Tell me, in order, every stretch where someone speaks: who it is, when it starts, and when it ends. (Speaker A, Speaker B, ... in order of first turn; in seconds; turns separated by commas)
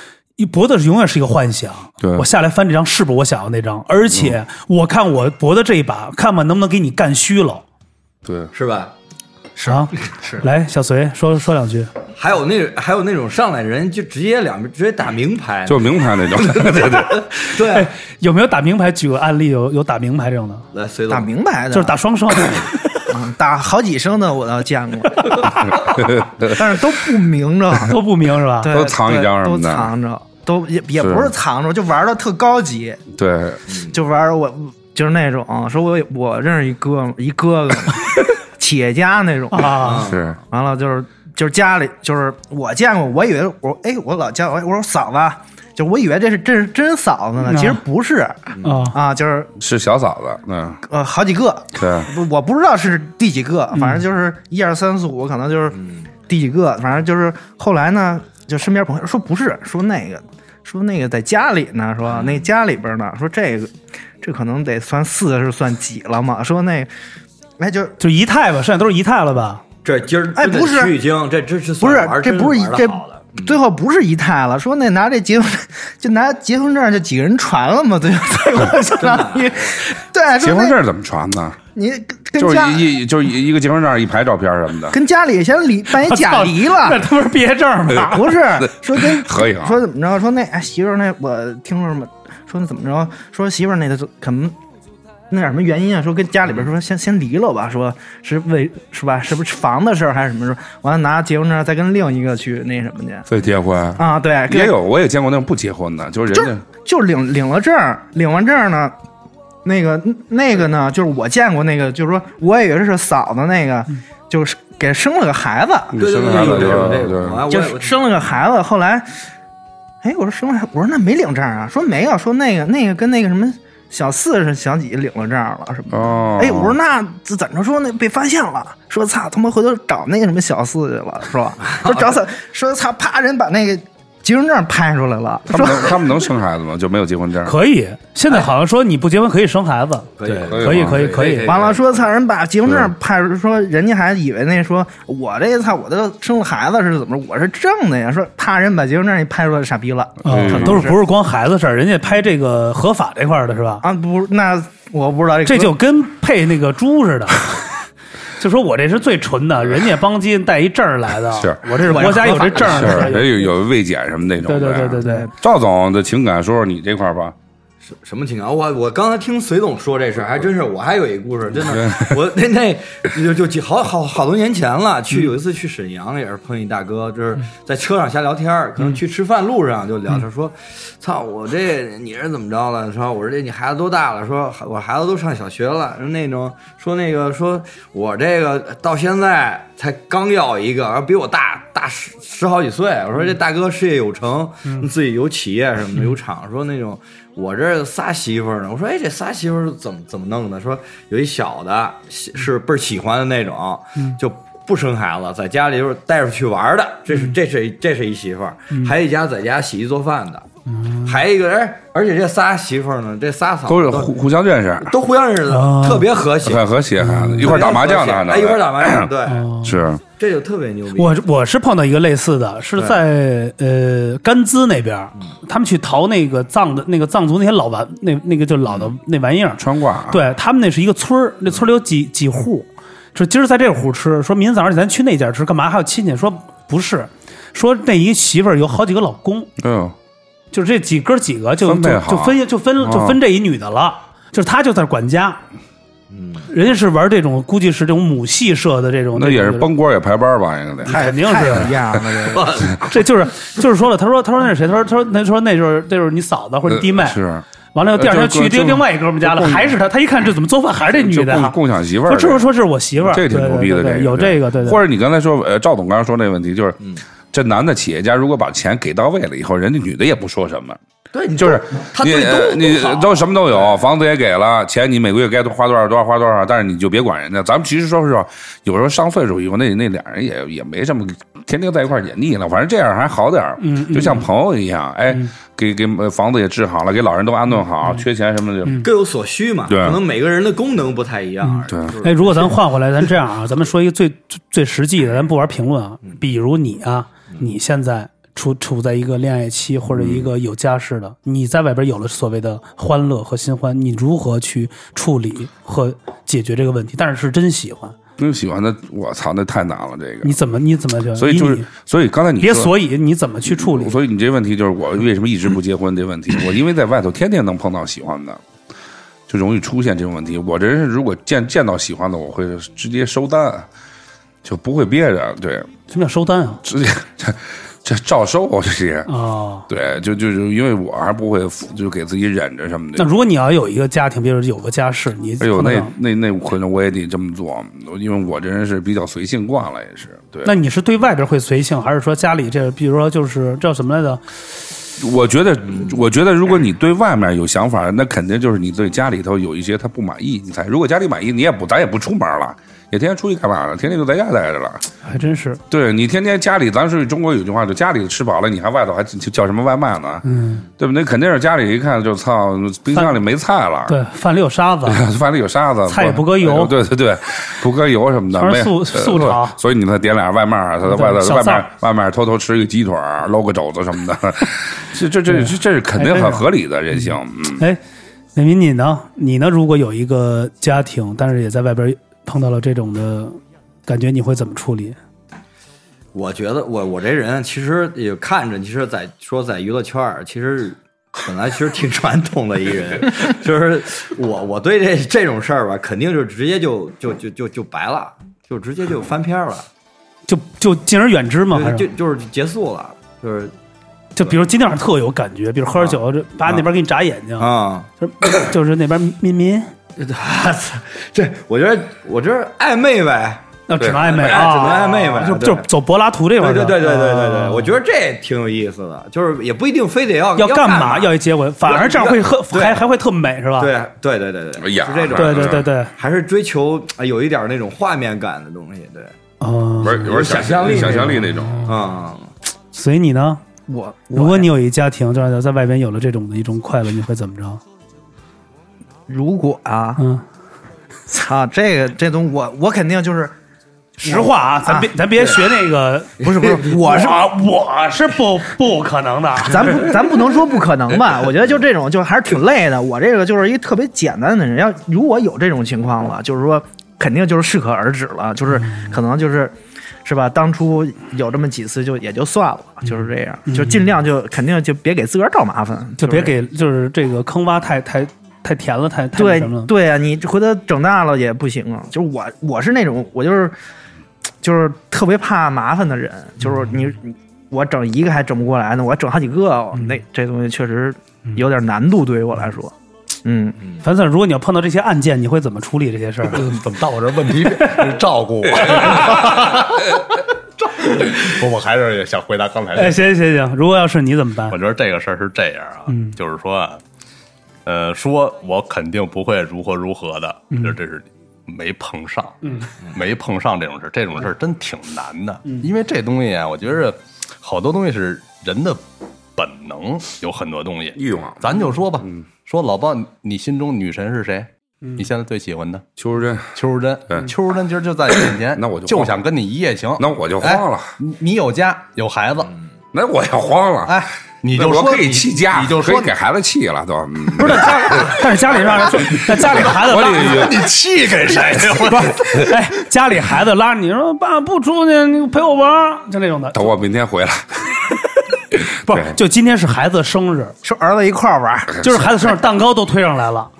Speaker A: 0.4-7.6, Speaker B: 2.0-2.2, Speaker B: 8.2-8.5, Speaker C: 8.5-8.9, Speaker B: 9.6-9.9, Speaker A: 9.6-11.9, Speaker C: 12.2-17.9, Speaker B: 15.7-17.3, Speaker A: 17.5-20.6, Speaker C: 20.7-21.3, Speaker D: 21.1-21.9, Speaker A: 21.7-22.8, Speaker D: 23.1-28.0, Speaker B: 25.9-26.6, Speaker A: 27.8-28.7, Speaker D: 28.6-33.0, Speaker B: 28.7-29.9, Speaker B: 31.0-31.3, Speaker B: 33.1-33.6, Speaker C: 33.7-33.9, Speaker D: 33.9-49.5, Speaker A: 39.5-40.1, Speaker C: 39.7-40.4, Speaker B: 40.0-40.4, Speaker A: 47.5-47.8, Speaker C: 48.5-48.8, Speaker A: 48.6-49.0, Speaker B: 49.6-50.8, Speaker D: 50.9-66.9, Speaker B: 51.7-52.1, Speaker A: 53.7-54.0, Speaker D: 67.6-67.9, Speaker A: 68.0-69.6, Speaker C: 69.8-73.6, Speaker D: 70.3-70.9, Speaker D: 71.8-80.8, Speaker C: 79.0-79.7, Speaker B: 80.4-81.6, Speaker D: 81.7-82.9, Speaker B: 82.4-85.0, Speaker D: 84.9-87.1, Speaker A: 86.0-88.4, Speaker D: 88.1-94.5, Speaker B: 88.5-89.8, Speaker D: 95.3-103.3, Speaker B: 103.3-106.6, Speaker D: 104.0-104.7, Speaker D: 106.3-108.9, Speaker D: 109.6-116.0, Speaker B: 115.9-117.4, Speaker C: 115.9-118.0, Speaker D: 117.5-119.1, Speaker D: 120.0-136.0, Speaker B: 125.9-126.8, Speaker C: 131.7-131.9, Speaker B: 135.5-137.5, Speaker A: 137.4-141.5, Speaker C: 140.2-142.0, Speaker E: 140.2-141.5, Speaker B: 140.4-141.3, Speaker D: 141.4-151.0, Speaker B: 142.6-142.9, Speaker A: 150.2-153.8, Speaker B: 150.2-150.9, Speaker D: 153.8-155.7, Speaker A: 155.4-157.7, Speaker A: 158.4-163.5, Speaker B: 161.3-161.8, Speaker D: 161.8-163.2, Speaker B: 162.6-167.3, Speaker A: 164.4-165.3, Speaker D: 165.0-165.3, Speaker C: 167.8-210.4, Speaker B: 171.6-172.2, Speaker A: 210.7-211.2, Speaker C: 211.0-214.1, Speaker B: 213.7-214.9, Speaker C: 214.8-216.7, Speaker A: 215.5-216.1, Speaker B: 216.4-219.1, Speaker A: 217.0-217.7, Speaker C: 217.3-219.5, Speaker A: 219.2-219.8, Speaker B: 219.6-220.0, Speaker C: 220.2-221.1, Speaker A: 220.9-239.5, Speaker B: 229.6-230.2, Speaker B: 239.6-239.9, Speaker A: 240.5-245.4, Speaker B: 241.6-243.2, Speaker C: 246.1-246.5, Speaker A: 246.5-249.7, Speaker B: 249.1-251.0, Speaker A: 250.8-251.7, Speaker D: 250.9-252.8, Speaker A: 252.7-257.2, Speaker B: 256.7-257.4, Speaker A: 257.7-264.8, Speaker B: 257.9-259.7, Speaker B: 260.9-262.5, Speaker B: 263.0-266.8, Speaker B: 267.3-270.8, Speaker C: 271.1-273.8, Speaker B: 271.4-288.8, Speaker A: 283.6-284.3, Speaker C: 288.8-292.6, Speaker B: 289.7-290.0, Speaker A: 291.4-307.9, Speaker B: 291.7-292.0, Speaker B: 299.9-300.3, Speaker B: 308.2-310.3, Speaker A: 310.2-311.7, Speaker B: 311.1-312.7, Speaker A: 312.4-313.9, Speaker B: 313.5-318.4, Speaker B: 319.3-323.7, Speaker B: 324.4-325.7, Speaker A: 325.9-326.6, Speaker B: 326.6-329.1, Speaker A: 329.1-329.6, Speaker B: 329.7-333.1, Speaker A: 332.9-335.9, Speaker B: 335.4-340.5, Speaker A: 340.4-344.4, Speaker B: 345.0-354.9, Speaker A: 355.1-355.6, Speaker B: 355.7-360.2, Speaker A: 360.2-360.6, Speaker B: 360.8-364.0, Speaker A: 363.9-365.1, Speaker B: 364.9-377.6, Speaker A: 365.9-366.7, Speaker A: 368.3-369.6, Speaker A: 370.8-371.7, Speaker A: 375.3-376.5, Speaker A: 377.1-377.8, Speaker A: 378.4-385.0, Speaker C: 386.1-399.7, Speaker A: 400.3-401.9, Speaker C: 401.5-403.5, Speaker A: 404.1-409.7, Speaker C: 405.8-406.6, Speaker C: 407.4-407.9, Speaker C: 410.0-413.4, Speaker A: 413.7-417.8, Speaker B: 413.8-414.3, Speaker C: 413.9-415.6, Speaker C: 416.4-421.1, Speaker A: 420.4-423.7, Speaker C: 421.6-422.8, Speaker C: 423.6-429.1, Speaker B: 424.6-425.7, Speaker A: 425.1-425.9, Speaker A: 429.4-431.8, Speaker B: 429.8-431.7, Speaker C: 429.9-432.3, Speaker A: 432.7-433.4, Speaker D: 433.7-434.5, Speaker A: 434.1-437.6, Speaker D: 439.1-440.0, Speaker A: 440.0-440.2, Speaker D: 441.1-443.4, Speaker D: 444.0-444.9, Speaker A: 444.0-449.9, Speaker C: 445.2-445.4, Speaker D: 446.2-447.2, Speaker D: 449.5-466.3, Speaker A: 458.6-458.9, Speaker A: 463.5-463.8, Speaker A: 466.0-469.7, Speaker D: 469.1-473.5, Speaker D: 474.4-483.6, Speaker A: 483.8-486.5, Speaker E: 486.3-493.0, Speaker A: 487.6-487.9, Speaker A: 488.7-489.1, Speaker A: 492.8-494.6, Speaker E: 494.5-496.8, Speaker A: 495.9-496.2, Speaker E: 497.6-508.8, Speaker A: 502.4-502.7, Speaker E: 509.4-515.8, Speaker B: 510.9-512.2, Speaker B: 516.0-516.5, Speaker E: 516.5-522.5, Speaker B: 518.5-519.2, Speaker B: 520.0-521.0, Speaker B: 522.9-530.7, Speaker E: 523.9-526.1, Speaker A: 527.4-530.4, Speaker E: 529.4-532.6, Speaker A: 531.8-536.7, Speaker B: 536.5-537.8, Speaker B: 538.6-539.2, Speaker A: 538.8-540.5, Speaker D: 540.6-541.9, Speaker A: 541.8-543.5